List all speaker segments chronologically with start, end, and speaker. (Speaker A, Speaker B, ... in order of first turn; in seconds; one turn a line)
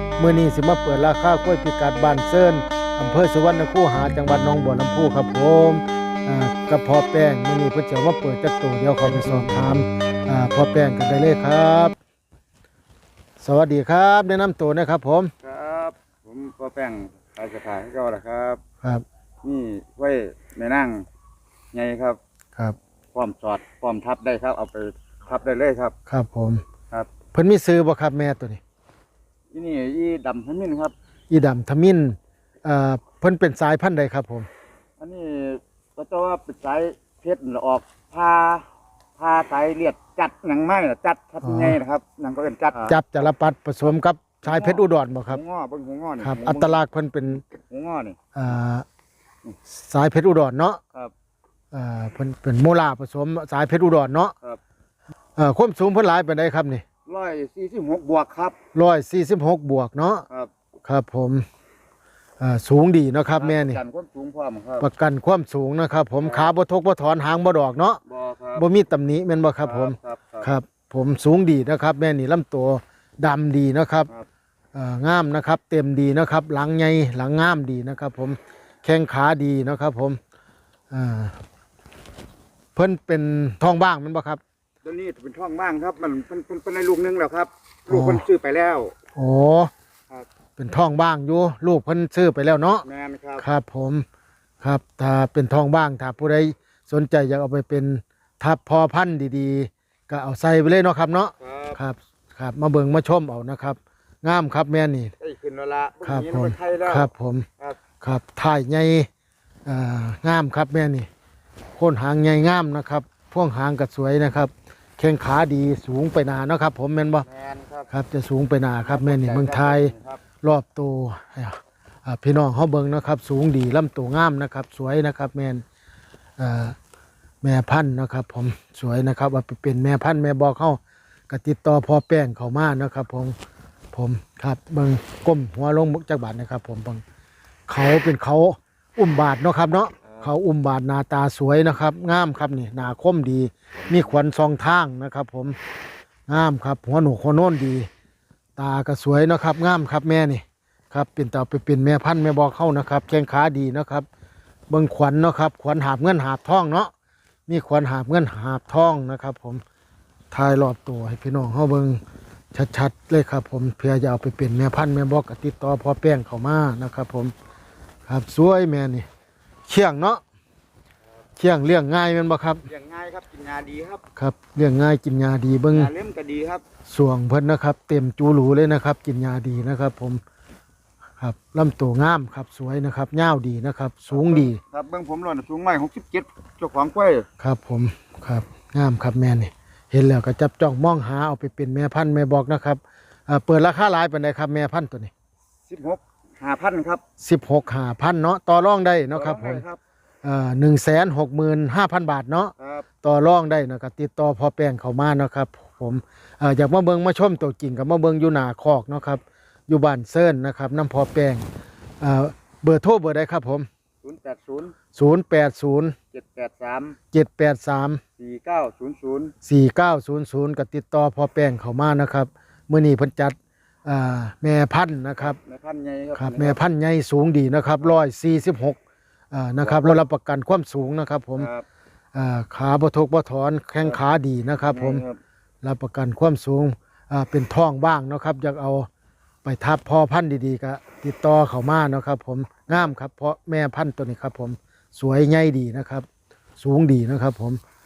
Speaker A: 0.2-11.9
Speaker A: 13.4-15.3
Speaker B: 15.4-18.6
Speaker B: 19.4-21.1
Speaker B: 21.7-22.2
Speaker B: 23.1-25.9
Speaker A: 26.1-26.6
Speaker A: 27.3-28.6
Speaker B: 29.5-30.9
Speaker A: 31.3-34.5
Speaker B: 35.0-38.6
Speaker B: 39.2-43.3
Speaker A: 41.4-41.8
Speaker A: 42.9-45.4
Speaker B: 43.8-46.8
Speaker A: 46.2-47.4
Speaker B: 47.5-48.2
Speaker A: 48.3-48.8
Speaker A: 49.7-50.8
Speaker A: 51.7-54.3
Speaker A: 55.4-56.8
Speaker B: 57.0-58.6
Speaker A: 58.7-60.2
Speaker A: 60.8-61.5
Speaker A: 62.4-63.8
Speaker B: 63.2-64.9
Speaker A: 64.8-68.0
Speaker B: 66.2-66.5
Speaker B: 68.0-68.7
Speaker A: 68.5-74.1
Speaker B: 69.6-70.5
Speaker A: 74.7-80.2
Speaker A: 80.9-81.3
Speaker A: 82.7-84.4
Speaker B: 84.8-88.9
Speaker A: 87.9-88.2
Speaker A: 89.2-89.7
Speaker A: 90.6-92.8
Speaker B: 92.8-93.4
Speaker A: 93.4-94.0
Speaker A: 94.6-105.1
Speaker B: 101.4-101.8
Speaker B: 105.2-107.8
Speaker A: 106.0-107.5
Speaker A: 108.0-109.1
Speaker A: 109.7-111.1
Speaker A: 111.8-117.2
Speaker B: 117.2-117.9
Speaker A: 117.9-125.6
Speaker B: 118.8-120.2
Speaker A: 126.4-126.8
Speaker A: 127.4-133.3
Speaker A: 133.9-137.0
Speaker A: 137.7-145.6
Speaker B: 140.0-140.3
Speaker B: 143.8-144.2
Speaker A: 146.3-147.9
Speaker A: 148.6-154.1
Speaker A: 154.7-156.9
Speaker A: 157.5-159.6
Speaker A: 160.3-162.0
Speaker A: 162.5-167.3
Speaker A: 168.1-169.1
Speaker A: 169.7-170.2
Speaker A: 171.4-172.7
Speaker B: 172.7-174.0
Speaker A: 174.2-175.9
Speaker B: 175.7-176.6
Speaker A: 176.9-180.2
Speaker A: 181.2-184.6
Speaker B: 184.1-187.3
Speaker A: 187.4-195.1
Speaker B: 195.7-197.0
Speaker A: 197.2-199.6
Speaker B: 199.1-199.8
Speaker A: 200.2-211.4
Speaker B: 202.6-202.9
Speaker A: 212.0-213.7
Speaker B: 214.0-214.7
Speaker A: 214.9-215.9
Speaker B: 216.1-217.0
Speaker A: 217.1-218.0
Speaker B: 218.2-219.3
Speaker A: 219.4-225.4
Speaker B: 225.2-226.6
Speaker A: 226.2-228.8
Speaker A: 229.3-231.5
Speaker B: 229.6-230.0
Speaker B: 231.4-231.6
Speaker A: 232.1-235.0
Speaker B: 234.6-235.2
Speaker A: 235.6-238.9
Speaker A: 239.4-246.1
Speaker A: 246.6-247.6